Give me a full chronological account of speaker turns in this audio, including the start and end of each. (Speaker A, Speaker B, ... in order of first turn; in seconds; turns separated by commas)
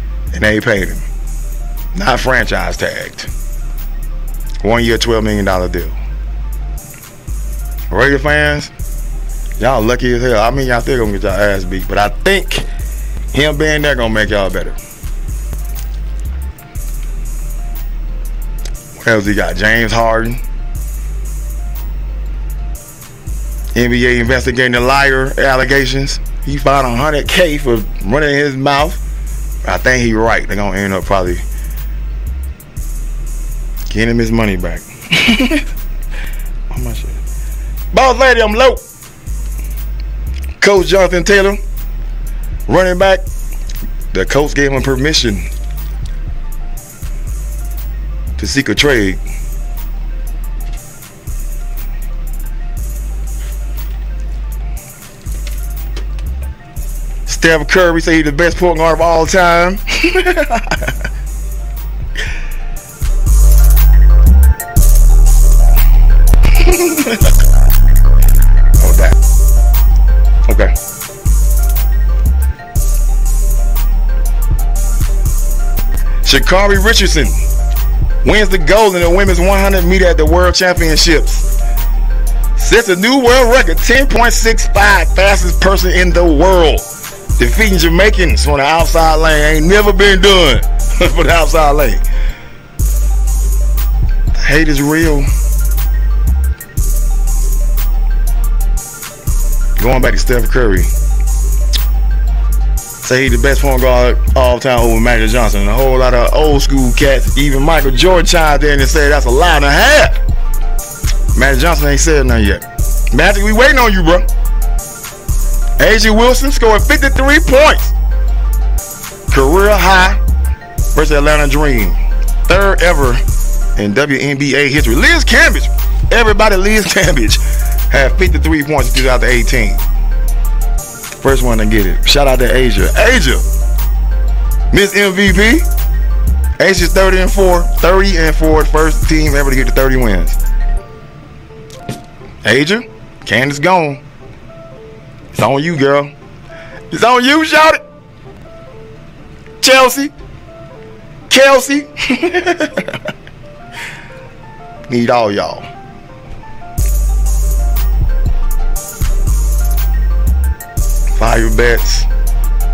Speaker A: 0.3-1.0, Speaker A: 1.9-3.3, Speaker A: 4.6-5.9, Speaker A: 7.9-8.7, Speaker A: 9.6-12.6, Speaker A: 13.3-14.8, Speaker A: 18.9-20.4, Speaker A: 23.7-29.0, Speaker A: 29.6-31.4, Speaker A: 33.9-35.6, Speaker A: 36.7-37.2, Speaker A: 37.9-38.8, Speaker A: 40.6-41.6, Speaker A: 42.7-43.2, Speaker A: 44.1-45.5, Speaker A: 48.4-49.2, Speaker A: 57.3-60.9, Speaker A: 66.5-67.3, Speaker A: 68.8-69.2, Speaker A: 70.5-70.7, Speaker A: 76.2-77.3, Speaker A: 78.2-81.5, Speaker A: 82.6-86.9, Speaker A: 87.4-92.0, Speaker A: 94.3-95.3, Speaker A: 99.8-100.9, Speaker A: 103.0-110.2, Speaker A: 111.3-114.3, Speaker A: 115.8-117.9, Speaker A: 119.3-120.2, Speaker A: 120.9-123.2, Speaker A: 123.8-129.8, Speaker A: 131.2-133.4, Speaker A: 134.7-135.7, Speaker A: 136.6-140.3, Speaker A: 142.4-144.0, Speaker A: 145.3-146.1, Speaker A: 146.9-147.8, Speaker A: 149.6-150.1, Speaker A: 151.3-153.0, Speaker A: 154.9-155.7, Speaker A: 161.1-162.1